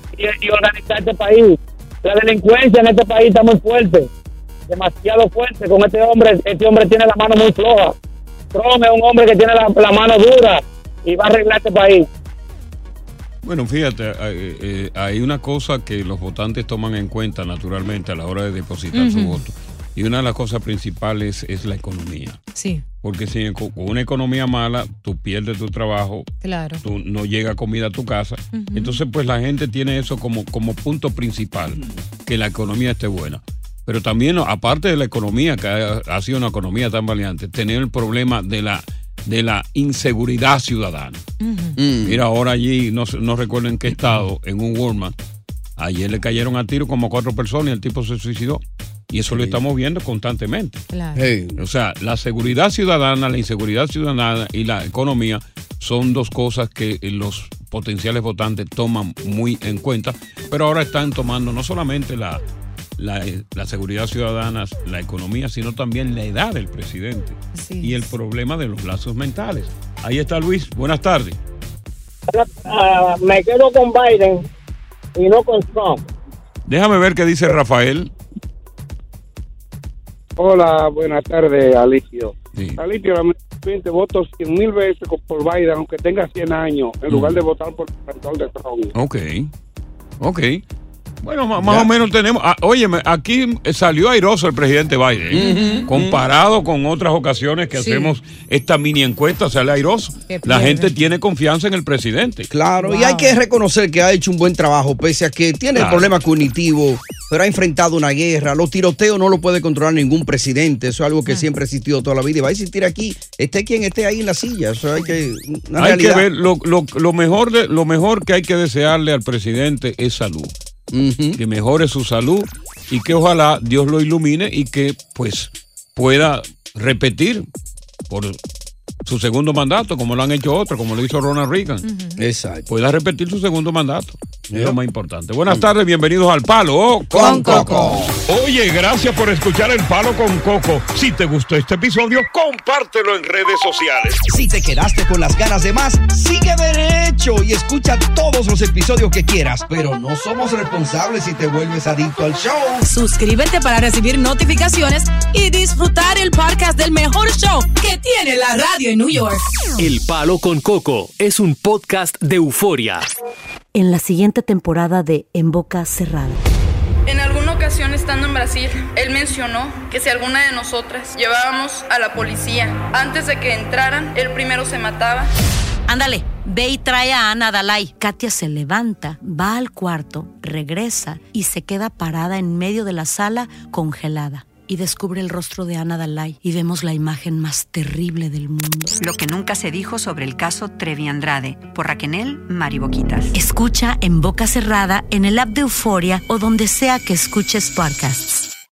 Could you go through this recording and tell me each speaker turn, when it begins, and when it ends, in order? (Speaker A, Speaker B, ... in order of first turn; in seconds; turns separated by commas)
Speaker A: 0.1-4.1, Speaker A: 4.7-7.9, Speaker A: 8.5-12.1, Speaker B: 13.4-22.4, Speaker C: 18.9-19.4, Speaker C: 22.5-22.8, Speaker B: 23.0-26.3, Speaker C: 26.4-26.8, Speaker B: 26.8-41.2, Speaker C: 28.5-29.0, Speaker C: 41.4-41.8, Speaker D: 41.8-42.2, Speaker B: 42.0-45.1, Speaker B: 45.8-50.8, Speaker D: 49.3-49.6, Speaker C: 50.9-51.3, Speaker D: 51.1-51.6, Speaker B: 51.6-62.4, Speaker B: 63.0-71.4, Speaker C: 67.5-68.1, Speaker E: 72.3-74.4, Speaker E: 75.2-76.0, Speaker B: 76.7-78.1, Speaker F: 80.4-88.9, Speaker B: 82.5-82.8, Speaker B: 87.1-87.5, Speaker B: 88.9-89.5, Speaker B: 90.2-90.6, Speaker B: 91.2-102.5, Speaker D: 91.6-91.9, Speaker D: 95.3-96.2, Speaker C: 95.4-95.8, Speaker C: 97.7-98.1, Speaker C: 100.3-100.9, Speaker D: 102.5-116.2, Speaker C: 102.8-103.4, Speaker B: 105.7-106.1, Speaker B: 115.8-120.5, Speaker D: 120.9-121.4, Speaker B: 121.3-127.5, Speaker B: 128.1-128.4, Speaker B: 129.0-131.8, Speaker C: 131.8-132.2, Speaker D: 132.2-132.7, Speaker B: 132.7-144.2, Speaker D: 134.5-134.8, Speaker D: 137.1-138.1, Speaker C: 137.2-138.0, Speaker D: 144.3-152.8, Speaker C: 152.8-159.4, Speaker G: 159.8-163.1, Speaker H: 163.7-166.4, Speaker I: 167.1-175.3, Speaker H: 175.9-189.0, Speaker J: 189.0-193.3, Speaker H: 193.3-198.3